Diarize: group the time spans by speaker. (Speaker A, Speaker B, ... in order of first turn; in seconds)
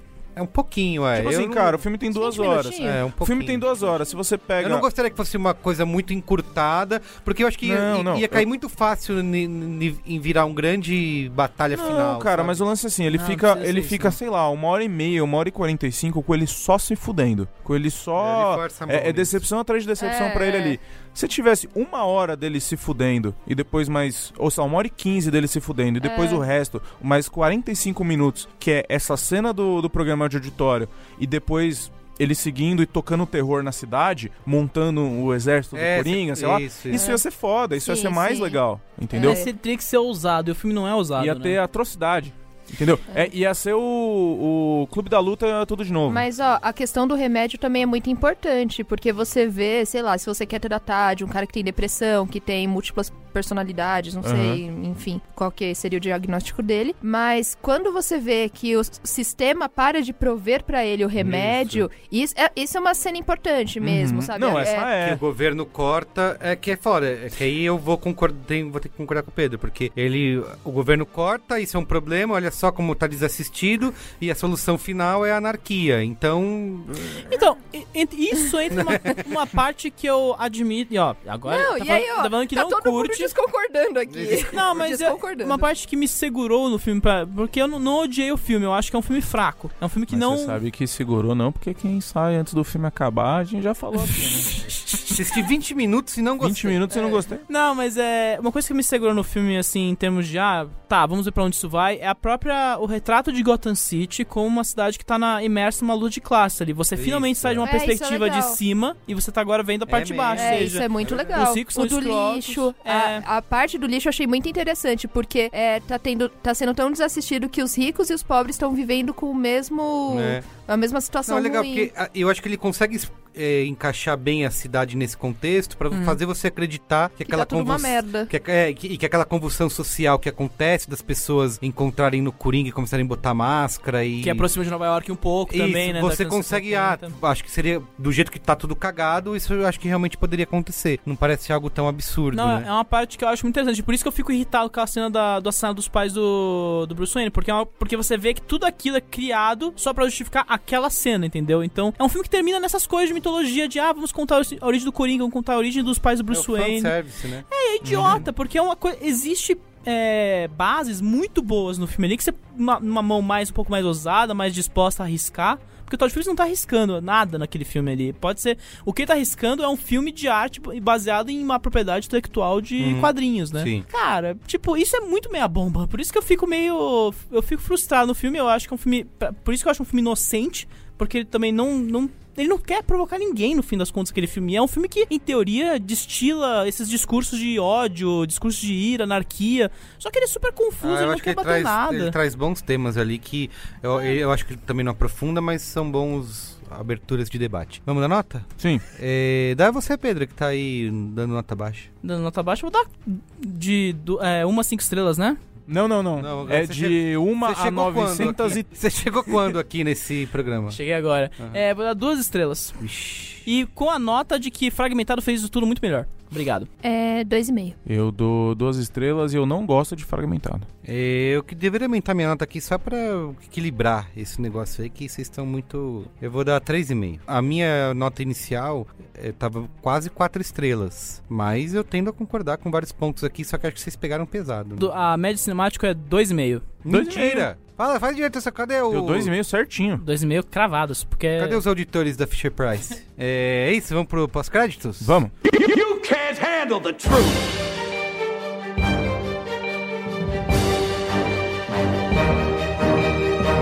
Speaker A: 0.4-1.9, 2.7-3.9, 4.6-12.6, 18.2-19.4, 35.7-37.1, 61.2-61.9, 64.5-77.3, 78.7-79.2, 84.1-84.7, 94.9-96.9, 107.0-107.7, 109.9-111.5, 120.1-120.5, 121.3-134.5, 135.5-142.7, 156.3-157.4, 172.8-173.8, 190.8-201.9, 206.2-210.8, 212.8-213.4, 220.8-234.9, 236.8-239.3, 241.4-245.2
Speaker B: 1.1-4.9, 7.6-8.4, 11.7-39.4, 41.2-46.3, 54.2-54.6, 63.8-65.2, 90.1-94.5, 96.4-97.5, 157.8-158.2, 198.6-198.8, 205.7-208.7, 217.9-220.7, 236.9-237.5, 238.9-240.0, 245.0-245.3
Speaker C: 2.1-3.0, 20.0-20.8, 26.0-26.4, 36.9-37.2, 37.8-38.6, 39.1-39.5, 46.1-64.9, 81.5-85.7, 107.6-108.6, 110.3-121.9, 127.2-128.3, 216.8-217.8
Speaker D: 13.1-14.1, 39.2-41.6, 77.2-83.3, 84.5-90.6, 97.5-113.2, 134.2-137.1, 142.3-156.9, 157.5-192.1, 202.0-205.4, 210.7-212.8, 213.4-216.7, 234.8-236.7, 240.0-241.6
Speaker E: 245.4-247.5